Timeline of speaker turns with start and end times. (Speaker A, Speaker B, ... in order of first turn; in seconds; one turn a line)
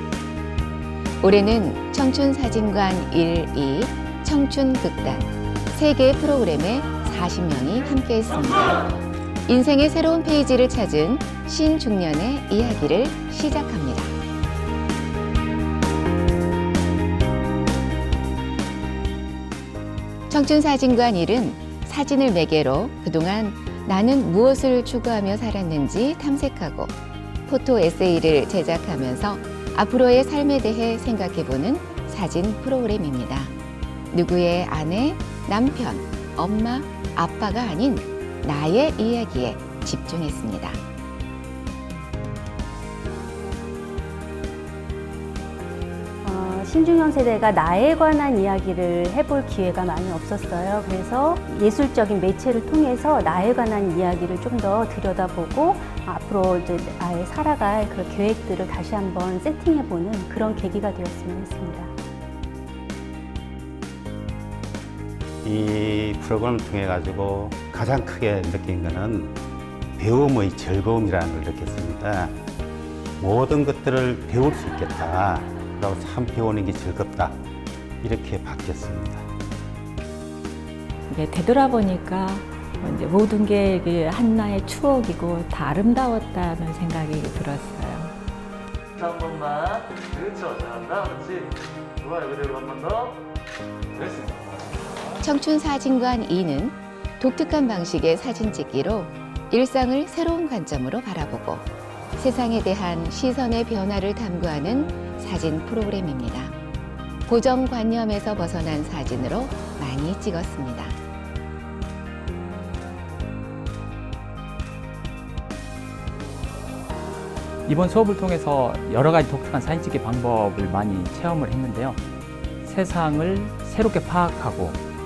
Speaker A: 1.2-8.9
Speaker A: 9.4-14.1
Speaker A: 20.3-26.9
Speaker A: 27.4-33.5
Speaker A: 34.1-40.8
Speaker B: 46.2-61.9
Speaker C: 65.4-69.4
Speaker C: 70.0-72.4
Speaker C: 73.2-77.4
Speaker C: 78.0-79.3
Speaker D: 81.1-88.1
Speaker E: 89.0-93.2
Speaker E: 94.0-94.7
Speaker A: 95.2-106.5
Speaker A: 107.3-111.0
Speaker F: 117.7-122.0
Speaker F: 122.6-124.8